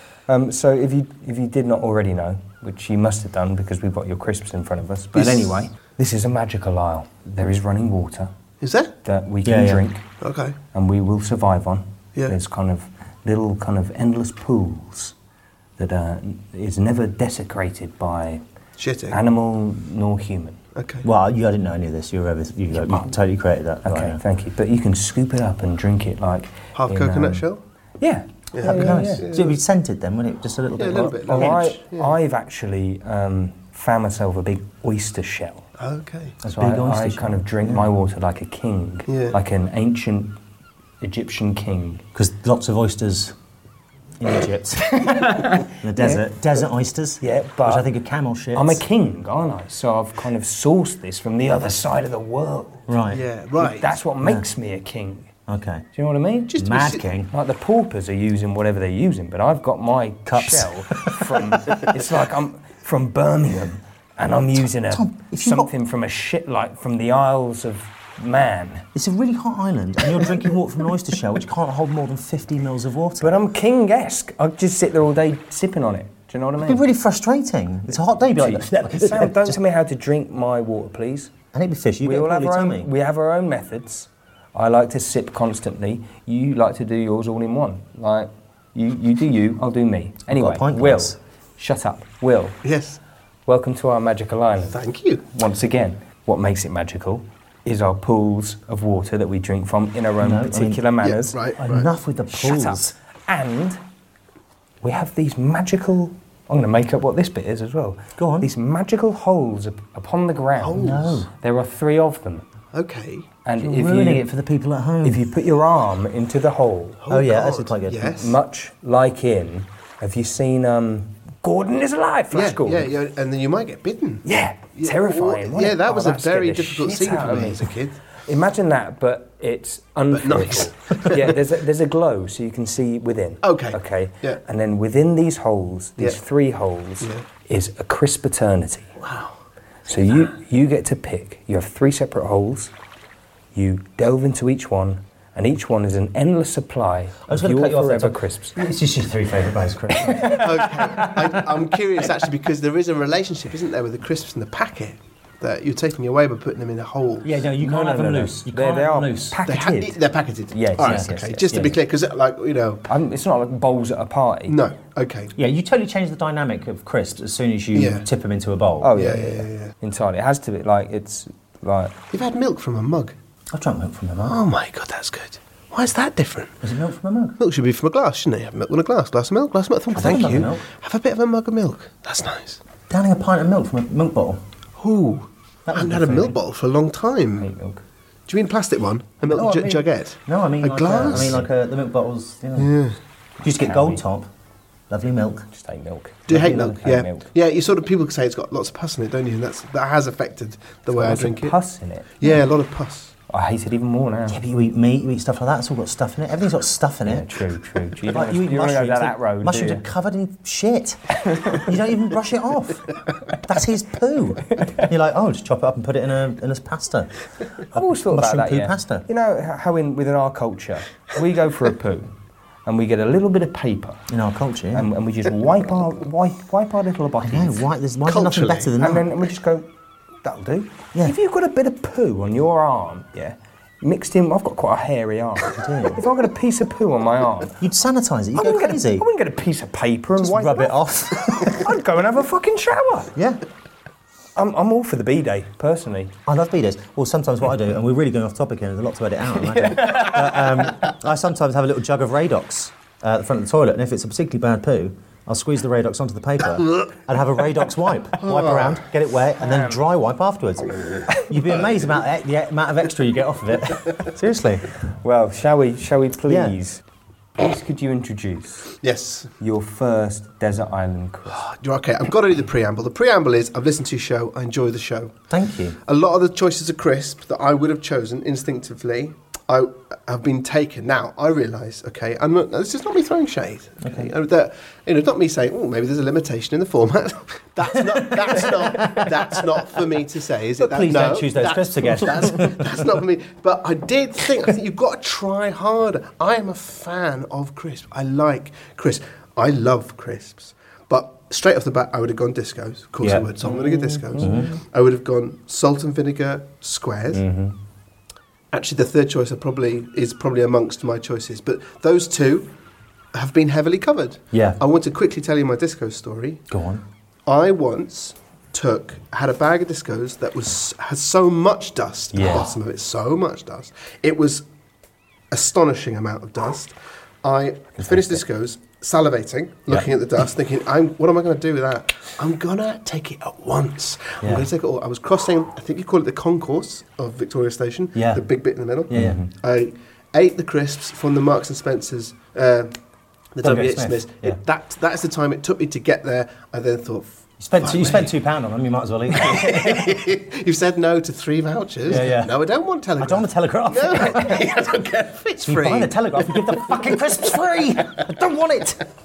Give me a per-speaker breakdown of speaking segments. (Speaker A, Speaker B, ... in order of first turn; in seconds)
Speaker A: 0.3-8.3, 9.0-10.1, 10.7-15.1, 15.8-18.4, 19.1-20.6, 22.7-23.1, 23.8-27.4, 28.0-29.2, 31.3-35.7, 36.6-40.4, 41.0-42.0, 44.9-46.3, 47.2-47.9, 48.5-52.9, 53.6-55.3, 55.9-56.5, 57.3-68.8, 73.2-76.8, 78.3-81.3, 82.0-92.6, 93.5-94.8, 95.3-101.4, 102.3-103.8, 104.8-112.5, 113.4-114.2, 115.0-117.0, 118.1-122.9, 124.2-127.7, 128.2-138.9, 139.8-142.7, 143.5-148.6, 150.0-151.1, 157.6-159.9, 160.5-161.6, 162.9-164.6, 168.8-171.9, 187.4-187.8, 193.5-194.0, 195.5-197.3, 200.9-202.1, 203.3-204.4, 207.1-209.8, 211.2-211.6, 217.7-222.1, 222.7-224.0, 224.7-227.6, 228.8-229.7, 230.2-237.6, 238.3-243.1, 244.3-246.1, 249.5-250.4, 259.4-259.8, 265.0-266.8, 267.4-268.7, 269.4-271.4, 303.5-304.5, 307.1-307.5, 322.1-322.5, 338.9-339.3
Speaker B: 5.1-5.6, 8.6-8.9, 10.2-10.6, 18.8-19.2, 20.8-21.1, 26.7-27.6, 28.5-29.6, 30.8-32.1, 35.8-36.4, 39.1-39.4, 53.1-53.9, 56.5-57.0, 92.6-93.0, 94.7-95.2, 101.0-101.9, 110.6-111.2, 112.7-113.3, 117.0-118.3, 122.3-124.2, 124.8-128.0, 130.1-131.3, 133.4-134.4, 139.0-139.3, 150.4-157.3, 159.5-162.8, 164.5-165.3, 167.7-168.1, 168.9-169.7, 172.1-173.1, 174.3-176.6, 177.4-182.6, 184.8-187.5, 188.3-191.4, 192.6-192.9, 196.3-201.6, 202.2-203.1, 228.1-228.8, 258.2-258.8, 268.8-269.3, 271.3-275.2, 275.8-307.2, 308.5-312.5, 313.1-316.4, 317.3-324.4, 325.3-342.7, 343.3-348.1, 349.2-357.0
Speaker C: 9.4-9.8, 21.0-24.2, 28.6-31.6, 36.4-37.9, 42.1-43.3, 44.2-48.8, 52.9-53.2, 55.5-55.9, 56.5-57.3, 60.3-62.0, 64.9-65.7, 68.9-73.4, 76.6-79.6, 81.5-82.9, 90.3-91.2, 100.2-100.8, 101.6-102.9, 108.2-108.5, 110.8-111.3, 113.6-115.3, 117.1-118.2, 147.3-150.8, 157.2-159.7, 160.8-161.8, 165.3-168.9, 173.5-174.4, 176.6-177.4, 179.9-180.6, 182.9-184.4, 185.7-186.3, 189.3-192.7, 193.4-194.3, 194.9-195.5, 196.3-196.6, 204.3-207.4, 208.0-217.1, 217.7-219.1, 224.1-224.9, 227.2-229.1, 235.5-236.0, 237.6-239.1, 240.2-241.7, 243.1-243.4, 246.2-264.7, 266.3-266.6, 275.3-275.8, 283.8-284.1, 287.7-289.6, 290.6-292.9, 304.2-304.5, 314.3-314.6, 316.5-316.8, 334.2-334.5, 337.9-338.2, 338.9-339.2, 343.4-344.4, 347.4-350.0, 351.9-352.4, 353.0-354.6, 355.4-358.8